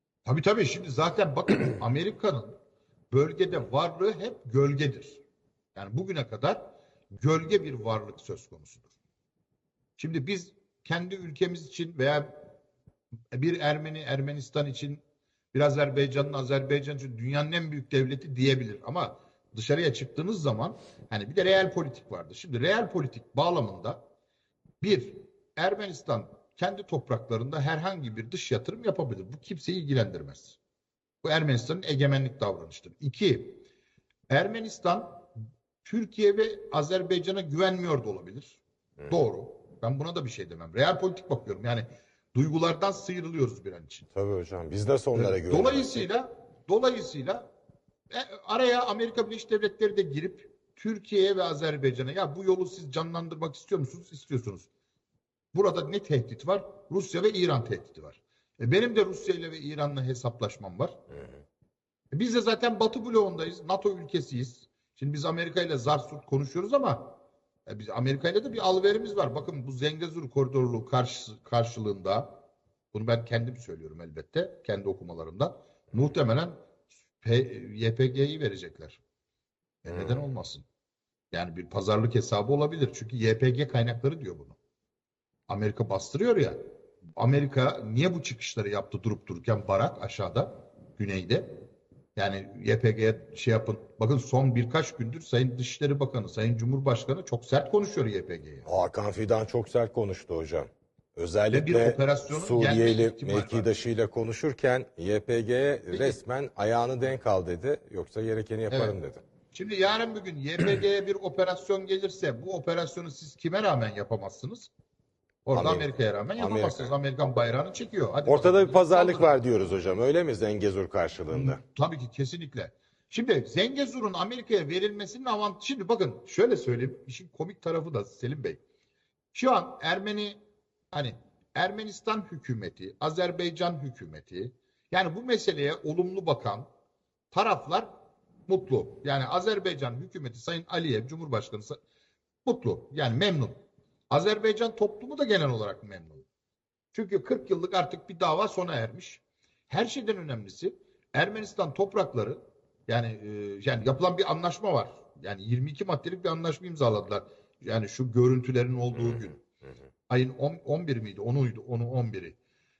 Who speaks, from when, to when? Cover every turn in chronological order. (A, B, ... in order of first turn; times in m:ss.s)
0:00.2-0:02.5 A
0:03.1-0:05.2 A
0:05.7-0:08.9 A
0:10.0-0:12.5 A
0:13.3-0:15.0 A
0:15.5-0:24.0 A
0:24.8-0:30.6 A
0:31.2-0:33.6 A
0:34.3-0:35.3 A
0:35.8-0:44.0 A
0:44.1-0:46.0 B
0:45.1-0:47.5 A
0:48.1-0:54.7 A
0:55.5-1:01.0 A
1:02.1-1:16.6 A
1:17.2-1:19.0 A
1:19.8-1:20.6 A
1:21.3-1:24.6 A
1:25.5-1:26.6 A
1:27.2-1:31.5 A
1:32.2-1:38.7 A
1:38.6-1:49.2 B
1:41.5-1:43.7 A
1:45.9-1:46.2 A
1:48.7-1:49.0 A
1:49.5-1:54.7 A
1:55.4-1:59.3 A
1:55.5-1:56.9 B
1:58.3-2:01.6 B
2:01.3-2:08.6 A
2:09.3-2:10.4 A
2:10.9-2:16.7 A
2:17.3-2:17.9 A
2:18.5-2:21.8 A
2:22.4-2:23.6 A
2:24.1-2:26.2 A
2:26.9-2:39.4 A
2:40.1-2:42.4 A